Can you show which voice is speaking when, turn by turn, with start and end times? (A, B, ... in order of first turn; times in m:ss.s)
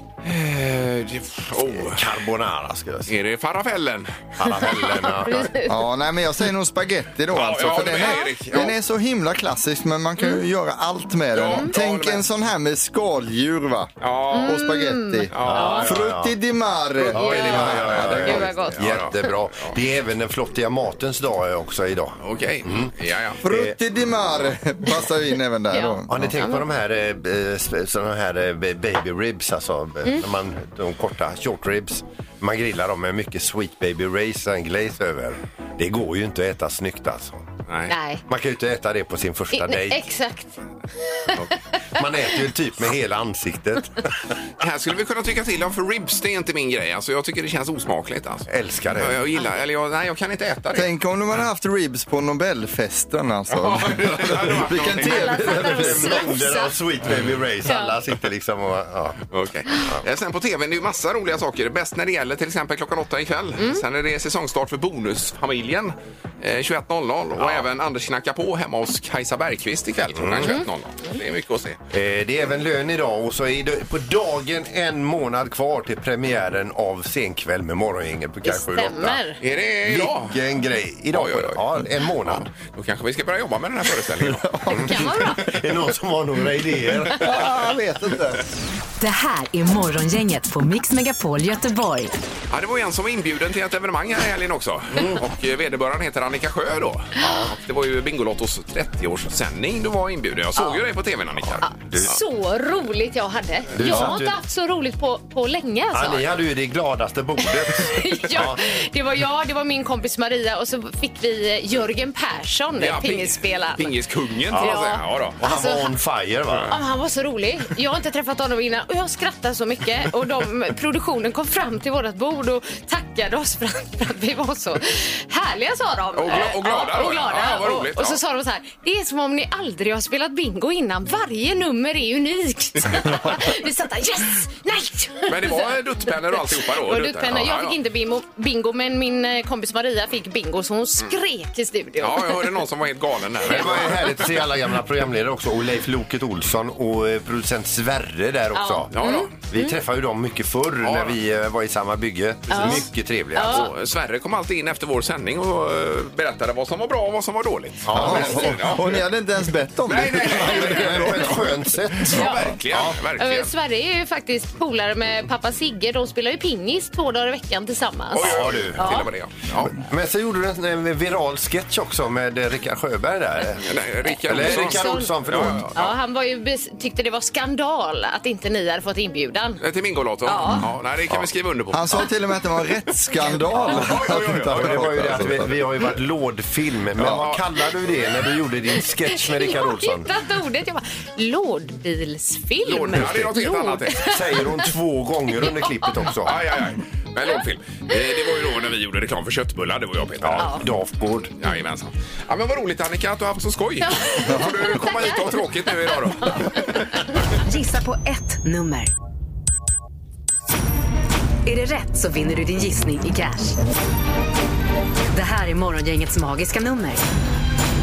0:00.2-0:02.0 A
0:01.8-0:03.1 B
0:03.1-0:04.2 A
0:04.4-0:05.6 B
0:04.6-0:05.8 C
0:05.7-0:18.4 D
0:07.3-0:08.8 A
0:07.9-0:08.3 C
0:11.3-0:12.2 A
0:14.0-0:14.6 A
0:14.3-0:15.9 C
0:15.3-0:15.9 A
0:15.4-0:16.4 B
0:17.1-0:23.8 B
0:17.1-0:19.8 A
0:17.2-0:18.8 C
0:22.2-0:23.4 A
0:23.4-0:26.3 D
0:25.7-0:26.6 C
0:26.1-0:37.5 B
0:37.7-0:37.9 A
0:37.9-0:38.2 C
0:38.3-0:40.1 B
0:39.5-0:41.4 C
0:42.0-0:44.3 B
0:44.6-0:50.9 A
0:48.5-0:49.2 B
0:50.7-0:56.2 D
0:53.5-0:55.7 A
0:55.0-0:56.8 C
0:55.1-0:59.2 B
0:57.6-0:58.0 C
0:59.3-1:11.8 A
1:07.4-1:07.6 B
1:10.2-1:10.6 B
1:11.9-1:19.2 B
1:18.4-1:19.4 C
1:19.4-1:20.4 A
1:19.8-1:22.5 B
1:21.1-1:21.6 A
1:22.5-1:24.5 A
1:24.3-1:25.1 D
1:24.7-1:27.5 B
1:24.8-1:25.5 C
1:27.2-1:28.4 D
1:29.0-1:32.1 E
1:32.5-1:42.2 A
1:35.0-1:35.2 B
1:37.2-1:37.5 B
1:41.4-1:42.1 B
1:41.6-1:46.3 C
1:43.7-1:44.4 B
1:45.9-1:48.6 B
1:47.4-1:53.9 C
1:52.8-1:55.4 A
1:54.5-1:54.8 B
1:54.6-1:55.9 C
1:55.4-1:56.7 B
1:56.7-2:22.6 C
2:06.2-2:08.2 A
2:15.3-2:17.8 A
2:22.0-2:24.0 A
2:23.4-2:33.8 B
2:23.5-2:24.1 C
2:28.5-2:29.7 C
2:28.9-2:29.3 A
2:30.8-2:31.2 A
2:32.5-2:32.8 A
2:32.5-2:33.7 C
2:33.5-2:39.0 A
2:37.8-2:38.8 B
2:37.9-2:41.5 D
2:39.9-2:41.4 A
2:40.3-2:43.0 B
2:42.0-2:43.5 A
2:42.1-2:42.6 C
2:43.2-2:49.1 C
2:48.1-2:49.8 A
2:48.2-2:53.7 B
2:53.6-2:55.9 A
2:54.1-2:55.2 C
2:54.2-2:55.7 B
2:55.7-2:59.6 C
2:59.6-3:02.1 A
3:00.2-3:00.7 C
3:01.7-3:05.6 D
3:03.5-3:05.5 A
3:04.5-3:10.1 B
3:07.0-3:07.4 A
3:07.0-3:07.3 D
3:09.1-3:14.5 C
3:12.6-3:14.1 A
3:13.0-3:13.3 B
3:14.0-3:16.4 B
3:15.4-3:16.1 C
3:16.2-3:20.5 A
3:20.2-3:21.3 B
3:20.4-3:20.6 C
3:21.4-3:26.7 A
3:23.8-3:27.1 C
3:24.3-3:24.6 D
3:27.4-3:28.9 E
3:31.4-3:33.6 E
3:35.1-3:37.0 E